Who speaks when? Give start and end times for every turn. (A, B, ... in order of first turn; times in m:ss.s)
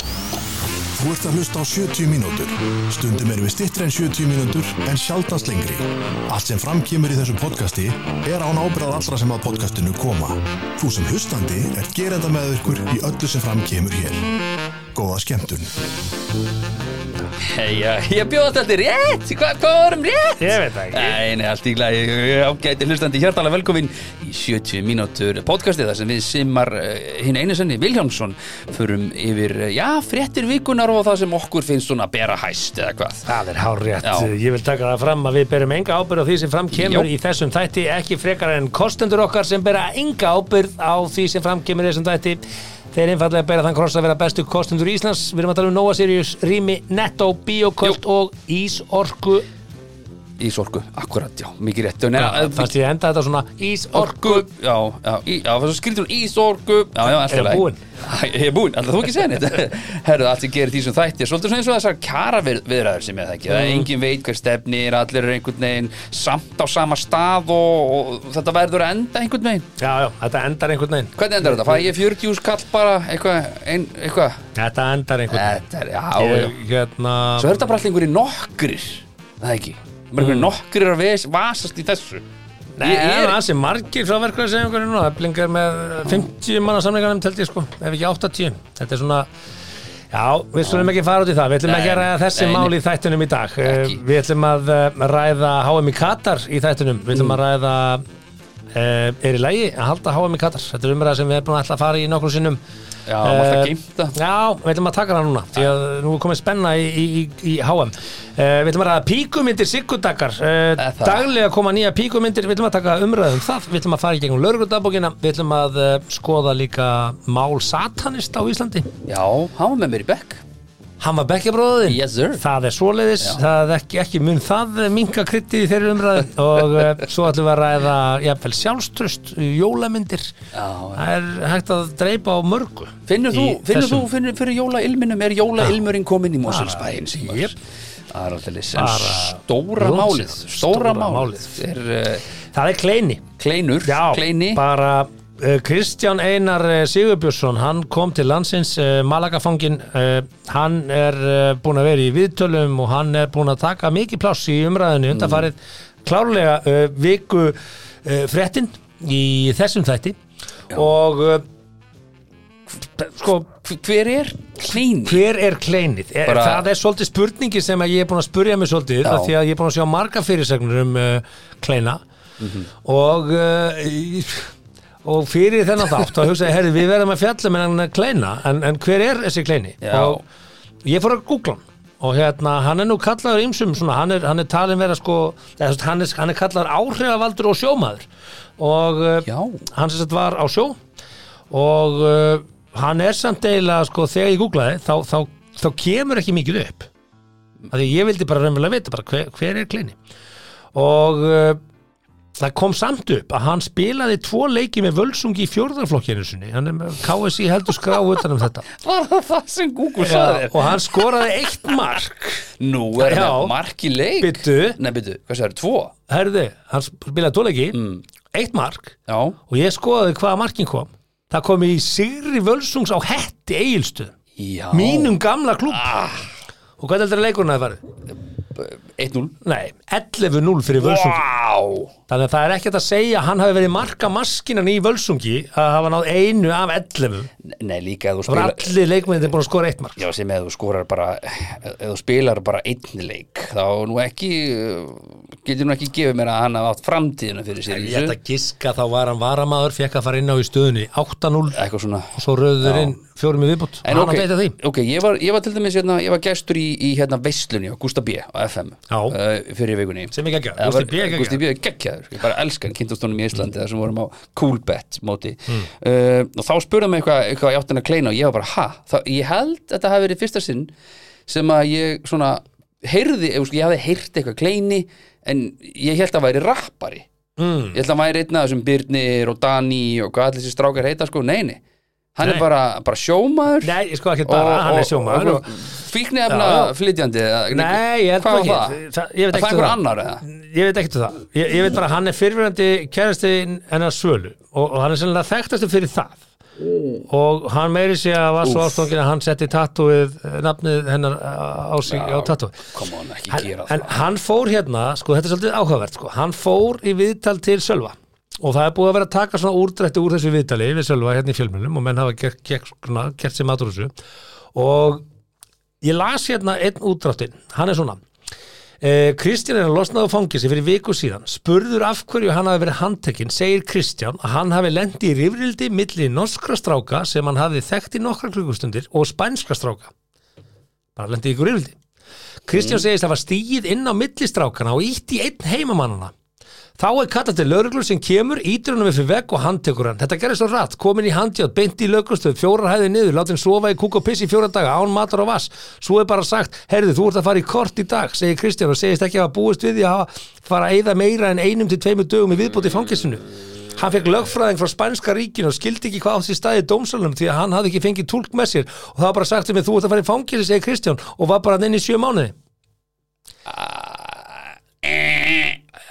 0:00.9-0:14.3 A
0:14.9-0:15.7 A
0:17.4-0:33.3 B
0:20.4-0:21.2 C
0:33.3-0:42.4 C
0:34.0-0:34.3 B
0:36.7-0:37.1 B
0:42.9-0:49.4 C
0:50.4-0:52.7 B
0:52.2-0:54.4 C
0:53.9-1:09.7 B
0:57.0-0:57.8 C
1:03.5-1:03.9 C
1:09.8-1:11.2 C
1:11.2-1:14.4 B
1:14.5-1:15.6 C
1:15.3-1:16.5 B
1:16.2-1:17.5 C
1:17.4-1:22.2 B
1:20.2-1:20.5 C
1:22.8-1:29.3 C
1:22.8-1:23.4 B
1:30.1-1:38.0 C
1:30.6-1:30.9 B
1:31.6-1:32.7 B
1:33.6-1:34.0 B
1:38.7-1:42.6 C
1:43.1-1:44.1 B
1:43.2-1:58.9 C
1:50.8-1:51.3 B
1:59.1-2:00.4 B
2:01.0-2:10.3 C
2:01.9-2:02.4 B
2:10.5-2:11.1 B
2:11.0-2:14.1 C
2:13.1-2:17.5 B
2:16.4-2:17.5 C
2:18.1-2:22.2 B
2:18.7-2:21.6 C
2:22.5-2:23.2 C
2:23.4-2:24.6 B
2:23.8-2:40.2 C
2:35.1-2:35.5 B
2:40.7-2:41.4 C
2:43.0-2:43.5 C
2:43.6-2:45.2 B
2:45.0-2:52.0 C
2:46.3-2:46.6 B
2:49.0-2:49.3 B
2:52.4-2:52.7 B
2:52.8-2:54.5 C
2:55.0-3:00.2 C
2:59.8-3:00.2 B
3:00.8-3:08.1 C
3:08.6-3:10.8 C
3:09.2-3:09.6 B
3:11.5-3:16.9 C
3:17.7-3:20.0 C
3:20.7-3:21.6 C
3:22.4-3:28.6 C
3:28.7-3:31.3 B
3:30.0-3:33.5 C
3:32.5-3:35.9 B
3:34.2-3:34.8 C
3:36.1-3:37.8 C
3:37.7-3:38.0 B
3:38.3-3:39.0 C
3:39.1-3:39.4 B
3:39.5-3:44.1 C
3:44.4-3:45.1 B
3:44.7-3:45.9 C
3:45.7-3:46.3 B
3:46.8-3:47.8 C
3:48.5-3:49.4 B
3:49.4-3:51.2 C
3:50.8-3:51.9 B
3:52.1-3:57.3 C
3:57.4-3:58.8 B
3:58.3-4:00.0 C
4:00.0-4:08.2 B
4:07.7-4:11.6 C
4:11.5-4:13.0 B
4:12.1-4:14.6 C
4:13.8-4:30.7 B
4:18.9-4:19.2 C
4:20.1-4:21.4 C
4:31.3-4:37.0 B
4:37.4-4:37.8 C
4:37.7-4:41.6 B
4:42.2-4:43.7 B
4:43.6-4:45.5 C
4:44.2-4:50.2 B
4:46.3-4:46.7 C
4:47.5-4:56.2 C
4:57.1-5:02.7 C
4:58.4-4:58.9 B
5:01.9-5:03.9 B
5:03.3-5:13.9 C
5:14.5-5:15.0 C
5:15.8-5:18.0 C
5:18.8-5:29.9 C
5:31.0-5:31.8 C
5:32.4-5:36.1 C
5:32.5-5:32.8 B
5:36.8-6:02.3 C
6:03.5-6:05.6 B